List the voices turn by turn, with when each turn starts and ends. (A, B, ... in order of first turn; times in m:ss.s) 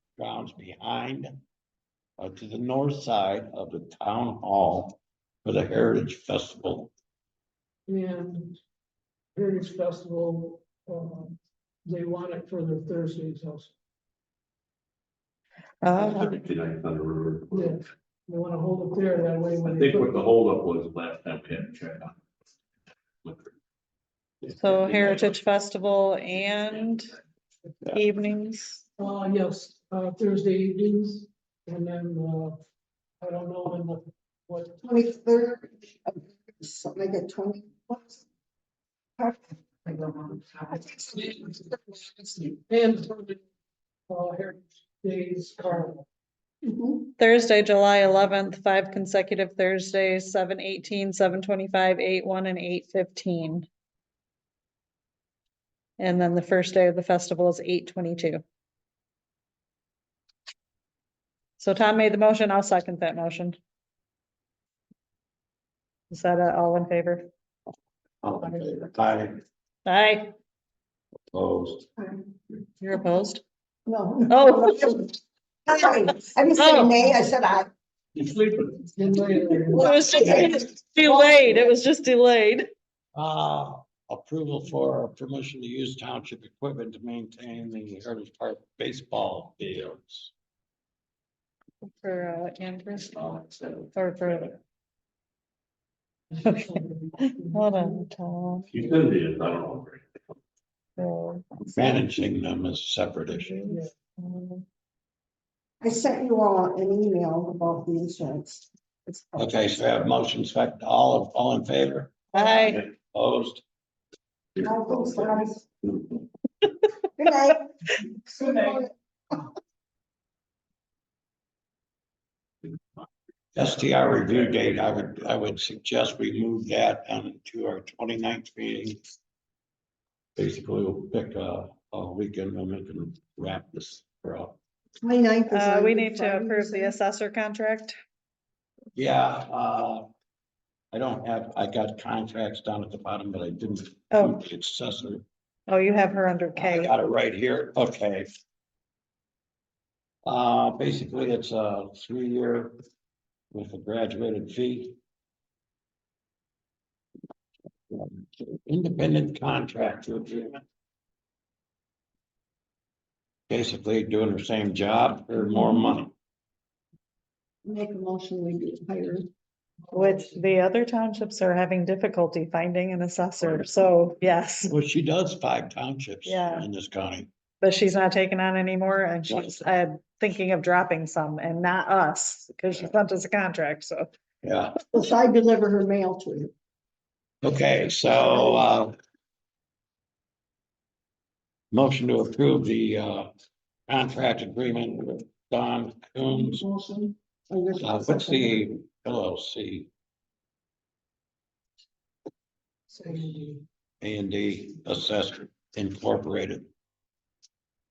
0:00.2-0:01.4 A
0:02.2-0:06.9 A
0:07.9-0:08.6 B
0:09.3-0:13.7 B
0:15.8-0:16.4 C
0:15.9-0:17.7 D
0:17.5-0:20.2 B
0:19.6-0:22.2 D
0:23.2-0:23.5 D
0:24.5-0:27.1 C
0:24.9-0:25.3 D
0:27.9-0:28.8 C
0:29.0-0:32.6 B
0:33.2-0:34.8 B
0:34.8-0:38.2 E
0:39.2-0:42.5 E
0:42.6-0:43.4 B
0:44.1-0:46.0 B
0:46.6-0:47.1 E
0:47.2-0:53.7 C
0:56.0-0:58.4 C
1:01.6-1:03.6 C
1:06.1-1:07.3 C
1:08.2-1:09.4 A
1:09.9-1:10.3 C
1:11.3-1:11.9 A
1:12.8-1:13.4 C
1:13.9-1:17.7 E
1:14.3-1:15.0 C
1:16.6-1:17.0 C
1:18.2-1:18.8 D
1:18.8-1:20.1 B
1:19.1-1:21.5 E
1:19.8-1:22.7 C
1:23.1-1:30.3 A
1:31.9-1:33.3 C
1:33.3-1:33.7 D
1:33.9-1:34.6 C
1:36.4-1:38.0 B
1:36.4-1:38.7 C
1:38.7-1:40.3 D
1:41.0-1:41.6 C
1:41.7-1:43.7 A
1:43.5-1:44.6 C
1:45.8-1:49.5 E
1:49.4-1:53.6 A
1:52.3-1:52.8 C
1:54.6-1:55.7 E
1:57.2-1:59.4 E
2:03.6-2:09.0 A
2:10.4-2:14.6 A
2:15.0-2:16.9 E
2:15.5-2:17.9 C
2:19.0-2:20.1 A
2:20.9-2:25.2 A
2:24.1-2:24.4 C
2:25.7-2:26.9 C
2:26.6-2:28.3 A
2:30.2-2:32.8 A
2:33.5-2:35.0 A
2:37.9-2:40.6 A
2:43.5-2:46.1 A
2:47.6-2:49.3 E
2:49.9-2:54.7 C
2:54.6-2:57.3 A
2:56.2-2:56.7 C
2:57.6-3:04.1 C
2:59.3-2:59.6 A
3:04.4-3:04.8 A
3:04.9-3:06.5 E
3:07.4-3:09.0 A
3:11.7-3:13.3 A
3:13.9-3:16.6 A
3:16.5-3:18.6 E
3:17.8-3:19.9 A
3:22.9-3:23.6 B
3:24.0-3:26.7 A